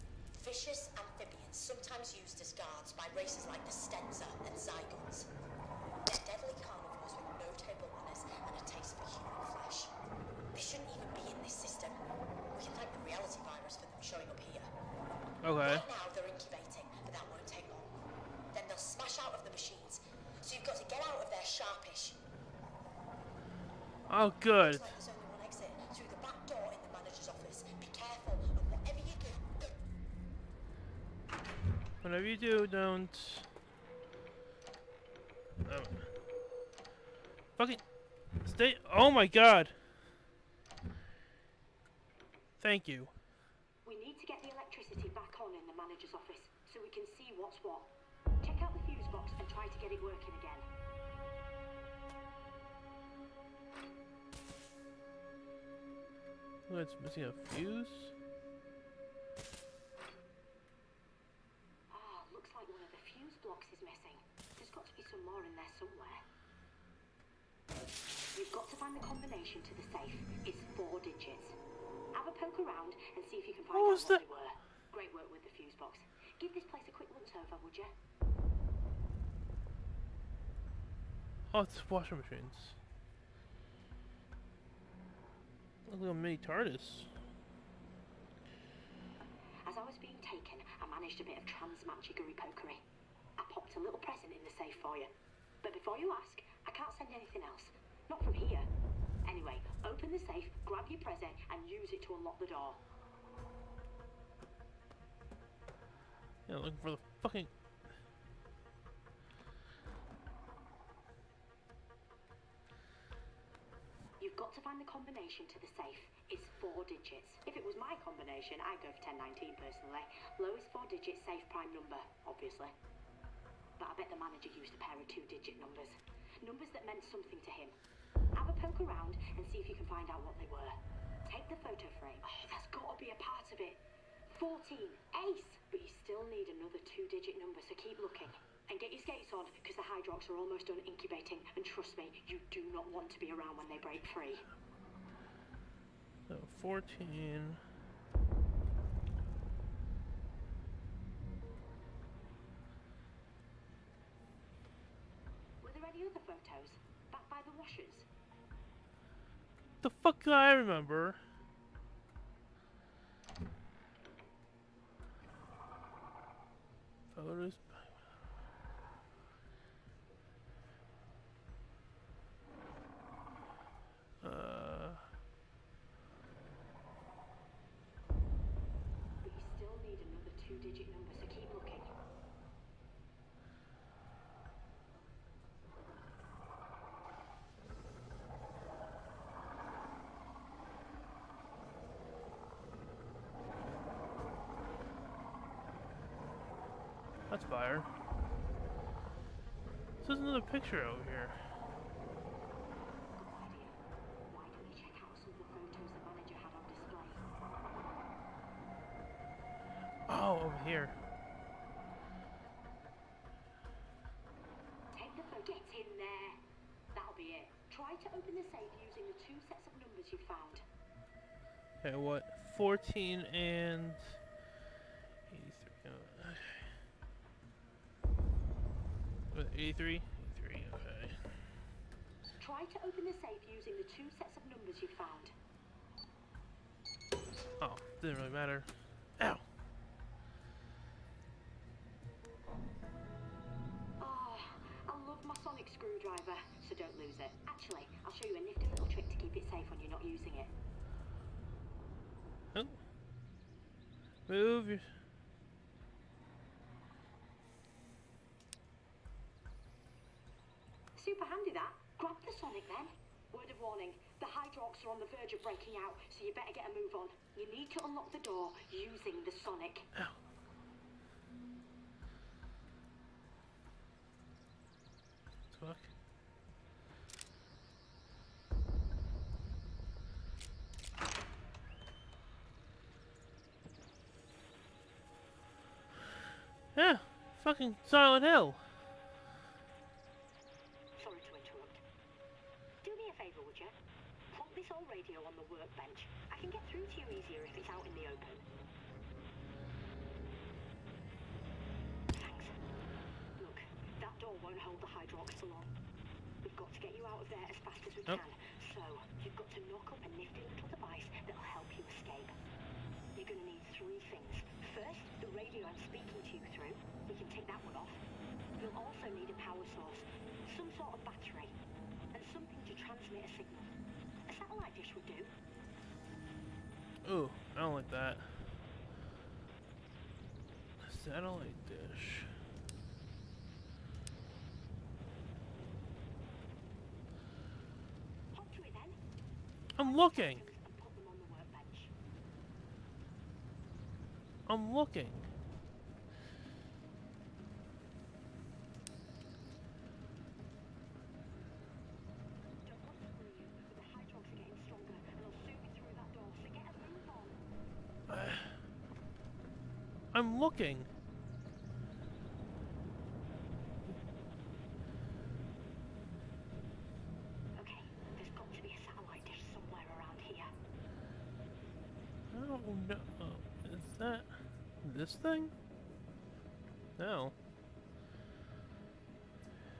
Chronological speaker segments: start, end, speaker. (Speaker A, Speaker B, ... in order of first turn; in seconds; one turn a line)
Speaker A: 0.3-5.3
Speaker A: 6.0-9.9
Speaker A: 10.5-12.0
Speaker A: 12.5-14.7
Speaker B: 15.4-15.9
Speaker A: 15.6-17.9
Speaker A: 18.5-22.2
Speaker B: 24.1-25.0
Speaker A: 24.6-29.8
Speaker B: 32.0-33.5
Speaker B: 35.6-36.1
Speaker B: 37.6-37.8
Speaker B: 38.4-39.7
Speaker B: 42.6-43.1
Speaker C: 43.8-50.7
Speaker B: 56.7-58.1
Speaker C: 61.9-66.2
Speaker C: 68.3-71.6
Speaker C: 72.1-78.0
Speaker B: 73.7-74.2
Speaker B: 81.5-82.8
Speaker B: 85.9-87.1
Speaker C: 89.7-92.8
Speaker C: 93.4-98.7
Speaker C: 99.2-102.8
Speaker B: 106.5-107.5
Speaker C: 114.2-122.8
Speaker C: 123.8-127.8
Speaker C: 128.3-144.5
Speaker B: 146.3-147.6
Speaker C: 155.6-158.1
Speaker B: 159.8-161.2
Speaker B: 167.1-167.8
Speaker B: 174.2-175.0
Speaker C: 179.2-181.9
Speaker B: 197.3-197.9
Speaker B: 200.0-201.4
Speaker C: 203.2-207.2
Speaker B: 210.1-210.9
Speaker C: 214.9-216.4
Speaker C: 216.9-220.7
Speaker B: 221.8-224.2
Speaker B: 225.3-226.7
Speaker B: 229.3-231.2
Speaker C: 232.4-235.3
Speaker B: 237.6-239.4
Speaker C: 244.0-250.5
Speaker B: 252.5-252.8
Speaker B: 254.3-254.9
Speaker C: 260.9-269.9
Speaker B: 275.5-275.9
Speaker B: 286.8-288.6
Speaker C: 291.0-291.8
Speaker C: 292.8-293.8
Speaker C: 294.3-298.4
Speaker C: 302.1-302.6
Speaker C: 303.4-305.7
Speaker C: 306.4-312.4
Speaker C: 313.1-318.0
Speaker C: 318.6-321.6
Speaker C: 322.1-323.7
Speaker C: 324.3-325.3
Speaker B: 327.0-328.4
Speaker B: 330.8-332.3
Speaker C: 338.3-339.0
Speaker B: 339.8-340.4
Speaker C: 339.8-341.9
Speaker B: 344.5-345.2
Speaker C: 352.6-357.4
Speaker B: 358.1-358.5
Speaker B: 360.1-360.9
Speaker C: 367.6-370.5
Speaker B: 372.3-375.5
Speaker B: 377.0-377.3